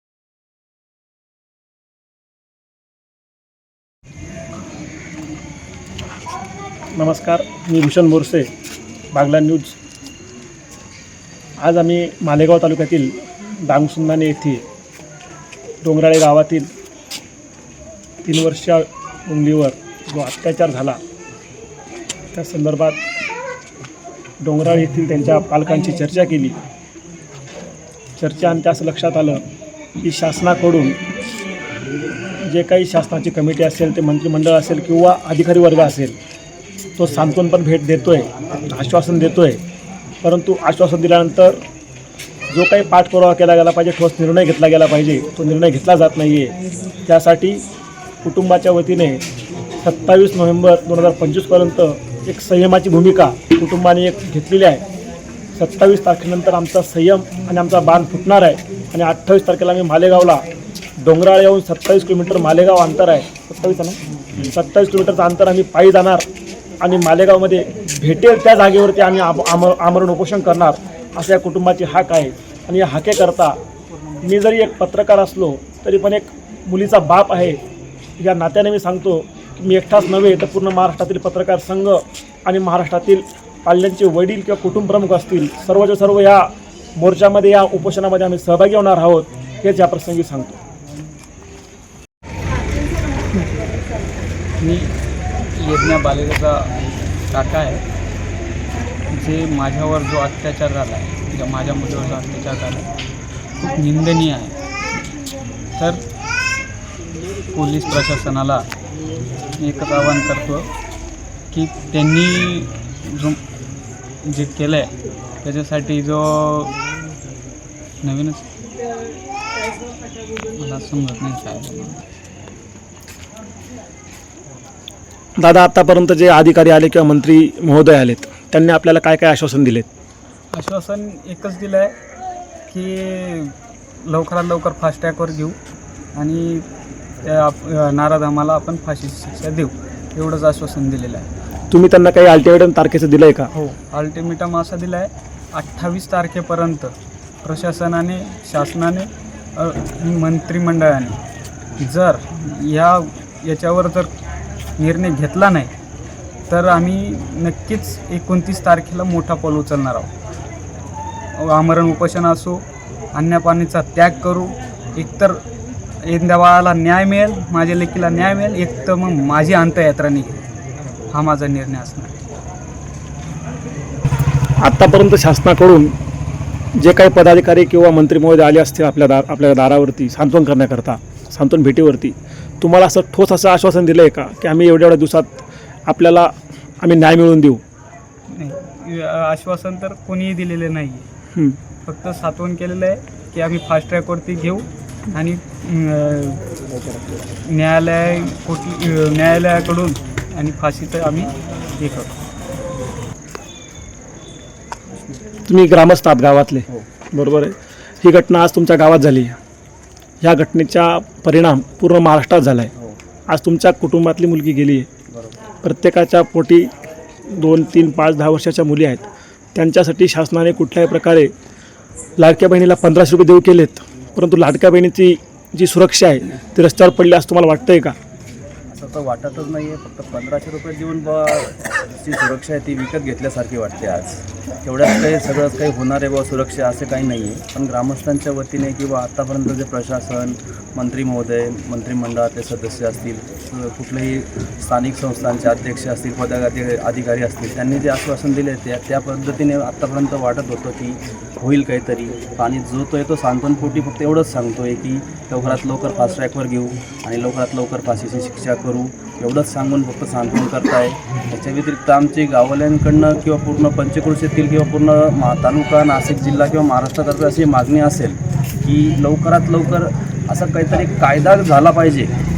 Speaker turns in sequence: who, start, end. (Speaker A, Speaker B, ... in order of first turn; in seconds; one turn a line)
Speaker A: 7.0-8.5
Speaker A: 9.1-9.7
Speaker A: 11.6-13.1
Speaker A: 13.6-14.6
Speaker A: 15.8-16.7
Speaker A: 18.2-21.0
Speaker A: 22.3-23.0
Speaker A: 24.4-26.6
Speaker A: 28.2-29.4
Speaker A: 30.0-31.0
Speaker A: 32.4-36.1
Speaker A: 37.0-39.6
Speaker A: 40.2-41.6
Speaker A: 42.5-46.5
Speaker A: 47.1-47.6
Speaker A: 48.2-49.2
Speaker A: 49.8-54.8
Speaker A: 55.5-60.4
Speaker A: 61.0-66.2
Speaker A: 66.8-73.6
Speaker A: 74.2-77.6
Speaker A: 78.2-90.6
Speaker B: 94.6-95.0
Speaker B: 95.5-96.8
Speaker B: 97.3-97.8
Speaker B: 99.1-102.9
Speaker B: 103.6-104.6
Speaker B: 105.8-106.0
Speaker B: 107.5-108.7
Speaker B: 109.6-110.7
Speaker B: 111.5-113.4
Speaker B: 114.2-116.8
Speaker B: 118.0-118.5
Speaker B: 120.5-122.0
Speaker A: 125.4-129.9
Speaker B: 130.5-131.9
Speaker B: 132.7-135.6
Speaker B: 136.1-136.7
Speaker B: 137.2-141.3
Speaker A: 141.7-143.5
Speaker B: 143.5-146.9
Speaker B: 147.4-151.2
Speaker B: 151.8-154.1
Speaker B: 154.8-155.7
Speaker B: 156.5-160.1
Speaker B: 161.3-165.4
Speaker B: 166.0-170.4
Speaker B: 171.1-172.1
Speaker A: 174.6-175.9
Speaker A: 176.8-187.6
Speaker B: 188.3-191.0
Speaker B: 191.8-196.4
Speaker B: 197.4-202.1
Speaker A: 205.4-209.4
Speaker A: 210.2-212.7
Speaker A: 213.3-214.9
Speaker C: 215.1-215.4
Speaker A: 215.6-216.7
Speaker A: 217.3-221.3
Speaker A: 222.2-227.9
Speaker C: 228.7-272.1